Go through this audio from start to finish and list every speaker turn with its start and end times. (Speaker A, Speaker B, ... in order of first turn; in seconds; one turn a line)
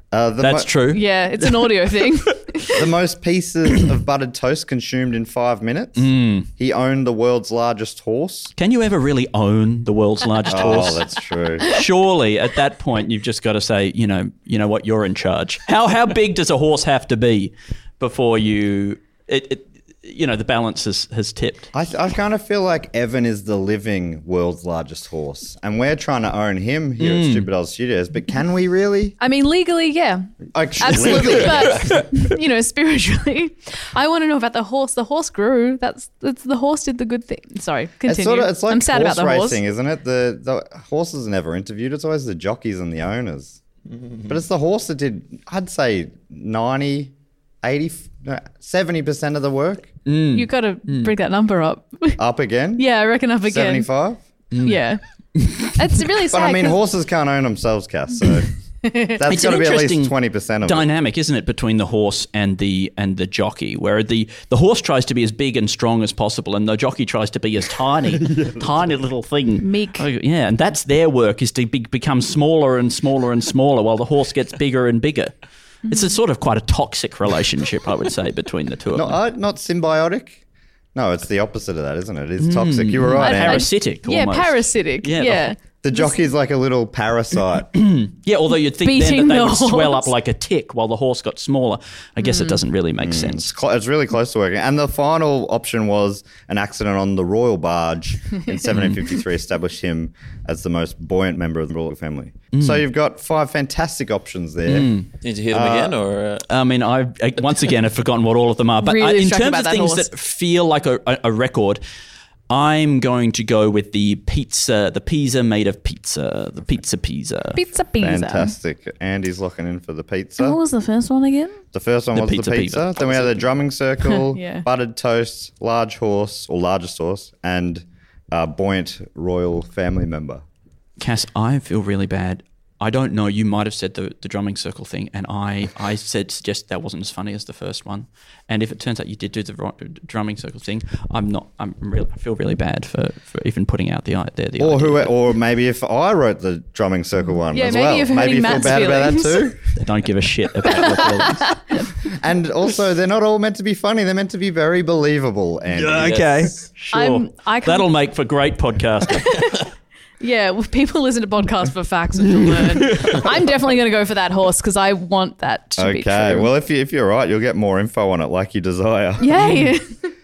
Speaker A: 0.1-0.7
Speaker B: 0.4-1.8
Speaker C: 0.9-2.7
Speaker A: 2.7-8.5
Speaker B: 6.0-6.5
Speaker B: 8.6-11.1
Speaker A: 10.4-11.7
Speaker B: 11.6-21.7
Speaker A: 21.7-29.1
Speaker B: 27.0-27.5
Speaker C: 29.2-30.2
Speaker A: 30.5-31.9
Speaker C: 30.8-39.6
Speaker A: 38.0-43.6
Speaker A: 44.2-49.9
Speaker B: 50.0-51.1
Speaker C: 50.3-52.2
Speaker A: 52.2-52.8
Speaker C: 52.8-53.9
Speaker A: 53.4-54.2
Speaker B: 54.5-54.8
Speaker C: 54.6-55.0
Speaker B: 55.4-55.7
Speaker C: 55.7-56.8
Speaker A: 56.3-58.5
Speaker C: 58.8-59.2
Speaker A: 59.1-60.9
Speaker B: 59.2-75.3
Speaker C: 69.6-70.0
Speaker C: 75.9-76.1
Speaker B: 75.9-79.2
Speaker A: 78.9-80.4
Speaker A: 80.9-83.7
Speaker B: 82.4-85.5
Speaker C: 83.2-86.1
Speaker A: 85.8-87.7
Speaker B: 87.7-93.5
Speaker C: 88.8-90.1
Speaker C: 92.2-92.6
Speaker A: 93.0-105.0
Speaker B: 102.5-102.8
Speaker B: 104.7-105.1
Speaker D: 105.2-106.5
Speaker A: 105.5-106.0
Speaker B: 106.5-111.8
Speaker C: 108.8-110.1
Speaker B: 112.5-117.6
Speaker C: 117.5-118.5
Speaker A: 118.0-120.6
Speaker C: 120.4-121.6
Speaker A: 121.7-130.4
Speaker B: 122.1-123.4
Speaker C: 124.0-124.7
Speaker B: 131.0-145.1
Speaker A: 144.6-149.6
Speaker C: 147.5-149.5
Speaker B: 149.8-151.5
Speaker C: 150.7-151.8
Speaker A: 152.1-156.2
Speaker B: 155.7-159.4
Speaker D: 156.0-156.7
Speaker C: 156.9-157.9
Speaker C: 159.3-159.5
Speaker C: 160.2-166.5
Speaker B: 162.3-163.3
Speaker A: 165.8-169.6
Speaker C: 169.2-169.9